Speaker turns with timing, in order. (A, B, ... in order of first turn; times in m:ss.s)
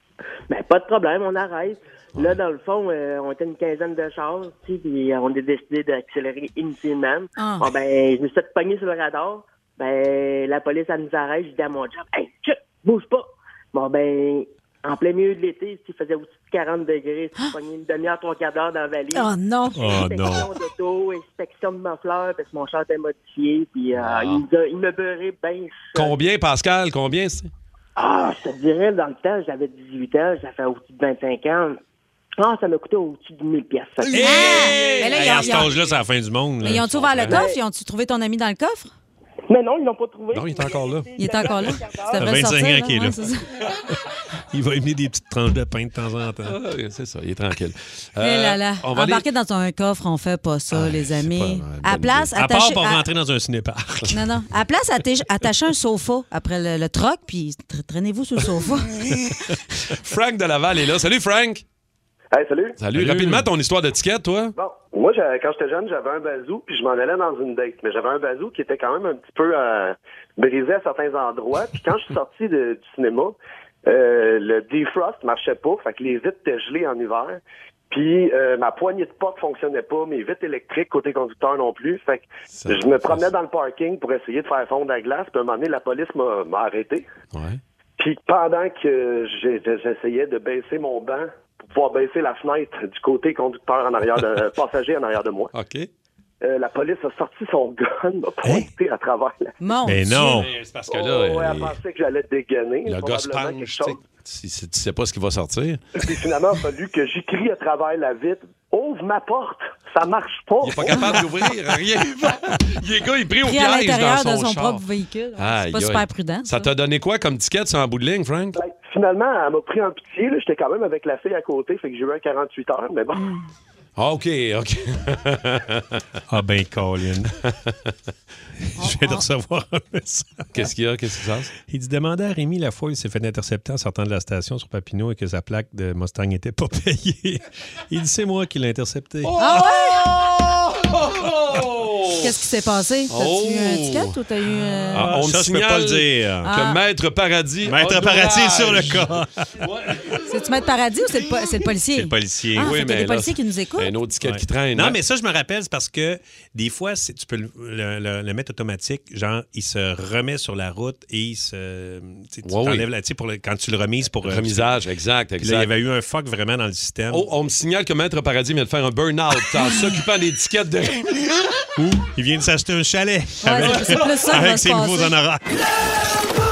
0:00.5-0:26.1 A
0:07.4-0:07.7 B
0:19.1-0:20.0 B
0:19.8-0:20.5 C
0:23.9-0:24.5 D
0:25.9-0:27.5 D
0:28.0-0:31.8 A
0:32.4-0:34.2 A
0:34.1-0:37.4 C
0:34.2-0:35.8 B
0:36.6-0:38.9 B
0:36.7-0:37.4 D
0:37.3-0:37.6 A
0:39.5-0:42.2 A
0:40.3-0:41.1 D
0:41.2-0:43.4 B
0:42.1-0:43.2 C
0:44.5-0:46.6 C
0:46.5-0:49.2 D
0:48.2-0:53.0 B
0:50.8-0:52.3 D
0:52.4-0:54.2 C
0:54.1-0:59.0 B
0:59.8-1:01.6 D
1:02.3-1:02.8 E
1:02.8-1:04.6 D
1:02.9-1:03.5 C
1:04.6-1:13.4 E
1:13.9-1:27.1 E
1:22.6-1:23.3 D
1:27.3-1:27.6 D
1:28.0-1:35.5 E
1:35.5-1:35.9 D
1:36.4-1:39.5 E
1:39.6-1:40.5 B
1:39.9-1:40.5 C
1:40.1-1:41.8 D
1:40.9-1:44.0 E
1:42.8-1:45.9 D
1:46.0-1:51.1 E
1:50.6-1:54.8 D
1:53.4-1:56.7 B
1:55.4-1:58.6 D
1:58.6-2:03.3 E
2:03.2-2:03.4 B
2:04.0-2:06.0 D
2:06.3-2:07.4 C
2:08.8-2:09.2 B
2:08.8-2:10.7 C
2:10.5-2:11.5 D
2:11.7-2:19.3 C
2:19.2-2:22.3 D
2:19.4-2:20.1 B
2:22.2-2:25.2 B
2:23.1-2:24.2 D
2:24.9-2:30.2 D
2:24.9-2:26.5 C
2:26.4-2:26.8 B
2:27.6-2:29.5 C
2:30.3-2:33.9 B
2:31.9-2:32.7 C
2:32.6-2:35.0 D
2:34.2-2:44.8 C
2:42.4-2:42.9 D
2:44.2-2:45.7 D
2:45.4-2:47.3 C
2:47.1-2:51.3 D
2:51.8-2:55.5 C
2:53.4-2:55.1 B
2:53.6-2:53.9 D